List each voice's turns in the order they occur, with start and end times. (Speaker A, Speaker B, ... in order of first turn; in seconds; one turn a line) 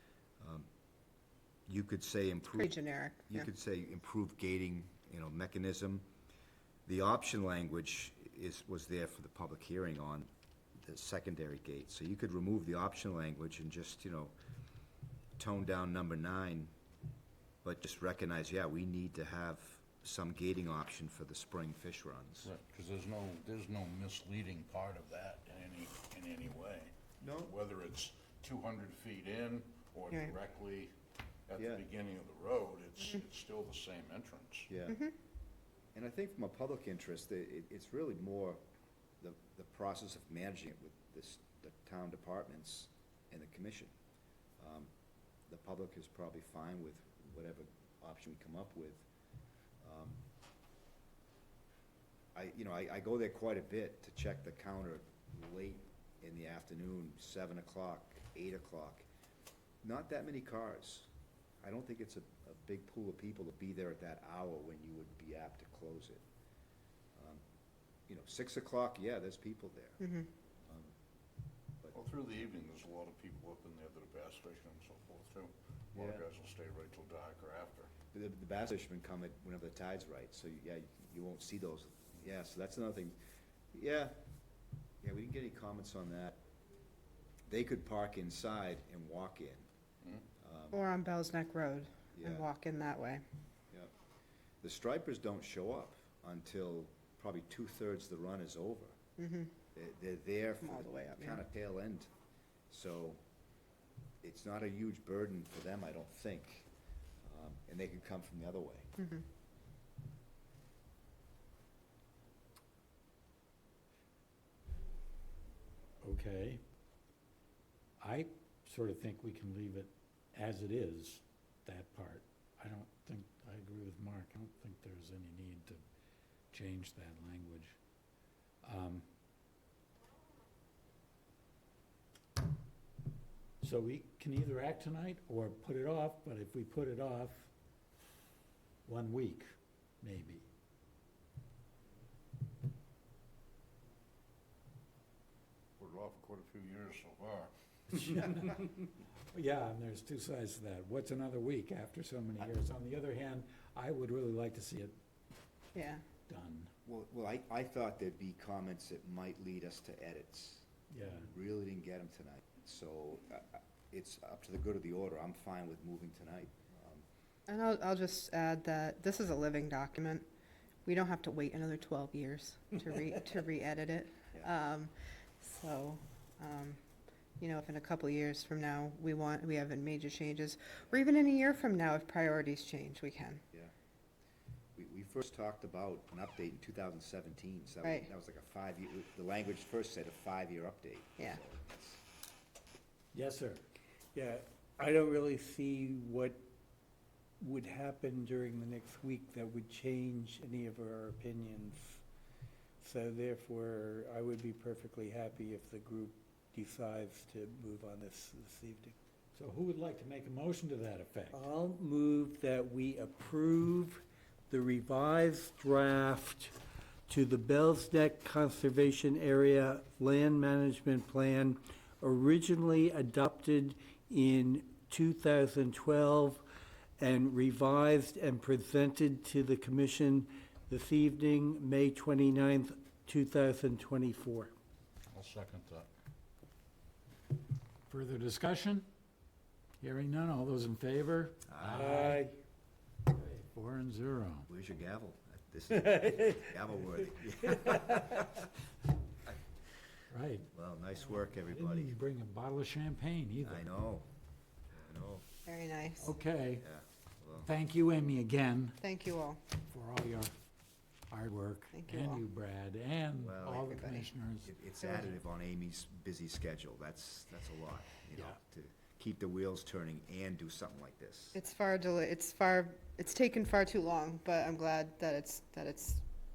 Speaker A: 0.4-0.7
Speaker A: 1.7-2.8
Speaker B: 2.5-3.5
Speaker A: 3.3-6.0
Speaker A: 6.8-10.3
Speaker A: 10.8-14.3
Speaker A: 15.4-16.7
Speaker A: 17.6-22.5
Speaker C: 22.4-30.9
Speaker A: 27.2-27.5
Speaker C: 31.5-34.7
Speaker A: 31.6-31.8
Speaker A: 34.7-35.0
Speaker A: 35.9-38.6
Speaker A: 39.2-43.9
Speaker A: 44.6-44.9
Speaker A: 45.5-49.0
Speaker A: 49.8-50.2
Speaker A: 52.3-59.0
Speaker A: 59.8-61.1
Speaker A: 61.6-66.2
Speaker A: 67.2-67.4
Speaker A: 68.1-70.0
Speaker B: 70.0-70.3
Speaker A: 70.7-70.9
Speaker C: 71.9-77.9
Speaker A: 75.9-76.2
Speaker A: 78.1-83.2
Speaker A: 83.7-84.2
Speaker A: 85.0-86.4
Speaker A: 87.5-89.7
Speaker A: 90.4-90.8
Speaker B: 90.7-93.2
Speaker A: 92.1-92.5
Speaker A: 94.6-99.0
Speaker B: 99.2-99.5
Speaker A: 99.7-102.1
Speaker B: 100.6-101.4
Speaker A: 102.7-103.2
Speaker A: 104.2-106.7
Speaker A: 107.2-108.9
Speaker B: 109.0-109.2
Speaker D: 116.0-116.6
Speaker D: 118.0-125.8
Speaker D: 126.5-127.8
Speaker D: 128.6-129.0
Speaker D: 133.6-137.5
Speaker D: 138.8-140.4
Speaker C: 145.8-148.2
Speaker D: 148.0-148.7
Speaker D: 149.3-154.9
Speaker B: 155.7-156.1
Speaker D: 156.3-156.7
Speaker A: 156.8-167.0
Speaker D: 160.9-161.3
Speaker B: 167.5-170.2
Speaker B: 170.8-176.8
Speaker B: 177.4-183.4
Speaker A: 184.8-192.0
Speaker B: 187.8-188.1
Speaker D: 193.1-193.6
Speaker E: 194.1-196.4
Speaker E: 197.4-202.0
Speaker E: 202.8-208.9
Speaker D: 209.3-211.4
Speaker E: 211.3-216.6
Speaker E: 217.1-226.4
Speaker E: 227.0-234.5
Speaker C: 235.1-235.9
Speaker D: 237.9-238.9
Speaker D: 239.8-242.2
Speaker A: 241.5-242.0
Speaker E: 241.7-242.3
Speaker D: 243.2-244.5
Speaker A: 244.5-248.3
Speaker D: 250.1-250.5
Speaker A: 250.5-251.9
Speaker D: 251.1-253.7
Speaker A: 253.4-254.1
Speaker A: 254.7-255.3
Speaker B: 255.4-256.1
Speaker D: 256.0-256.6
Speaker A: 256.6-257.5
Speaker D: 257.4-258.8
Speaker B: 258.8-259.4
Speaker D: 259.6-260.3
Speaker D: 261.1-264.5
Speaker B: 261.7-262.2
Speaker A: 263.2-271.4
Speaker B: 271.3-276.0